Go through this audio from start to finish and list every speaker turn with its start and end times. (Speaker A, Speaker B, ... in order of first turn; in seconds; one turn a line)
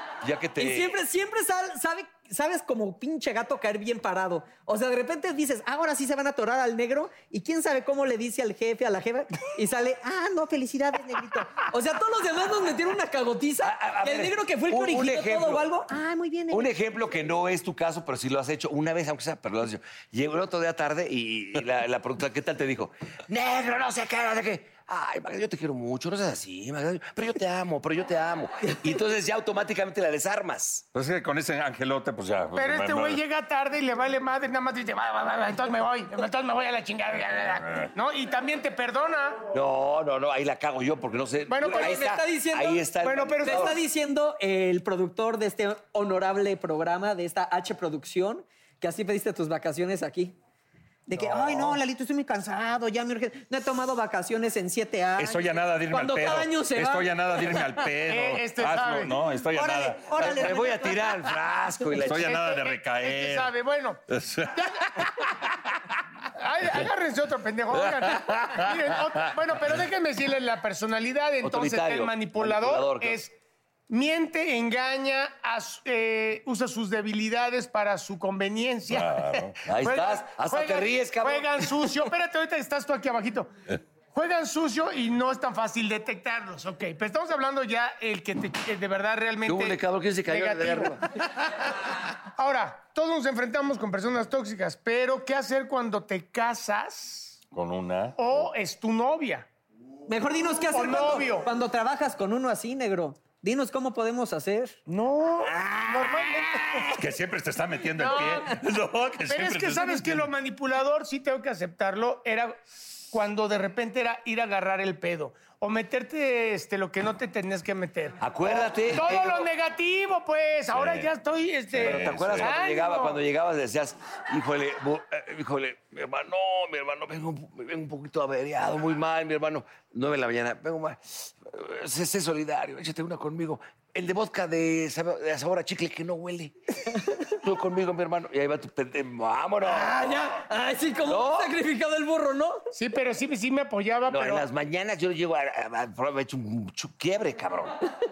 Speaker A: 0.2-1.0
Speaker B: 0.6-16.7
Speaker A: 13.6-15.7
Speaker A: 16.5-30.8
Speaker C: 30.9-33.2
Speaker D: 32.5-39.4
Speaker C: 37.6-37.9
Speaker A: 39.5-43.8
Speaker D: 41.5-42.0
Speaker B: 41.6-42.9
Speaker D: 43.0-43.8
Speaker B: 43.4-50.3
Speaker B: 51.1-57.6
Speaker C: 51.1-51.8
Speaker C: 55.2-60.5
Speaker D: 58.1-59.1
Speaker B: 59.5-61.2
Speaker A: 60.2-62.4
Speaker C: 62.0-63.5
Speaker D: 62.2-64.0
Speaker C: 64.1-65.3
Speaker D: 64.5-64.8
Speaker D: 66.3-73.3
Speaker C: 67.7-69.3
Speaker A: 71.4-73.2
Speaker D: 73.9-83.5
Speaker C: 78.9-79.6
Speaker A: 79.7-81.9
Speaker D: 84.1-91.0
Speaker A: 89.4-91.0
Speaker D: 92.4-97.3
Speaker C: 97.5-98.5
Speaker D: 98.2-99.5
Speaker B: 100.1-104.8
Speaker D: 100.7-101.5
Speaker D: 104.9-106.9
Speaker C: 107.0-110.3
Speaker D: 108.0-108.5
Speaker D: 109.3-112.6
Speaker D: 113.1-123.2
Speaker A: 118.2-119.5
Speaker C: 120.7-121.1
Speaker C: 121.7-122.5
Speaker A: 121.8-136.5
Speaker A: 137.3-140.4
Speaker B: 139.6-142.6
Speaker A: 141.0-141.5
Speaker D: 142.7-144.4
Speaker A: 144.1-147.8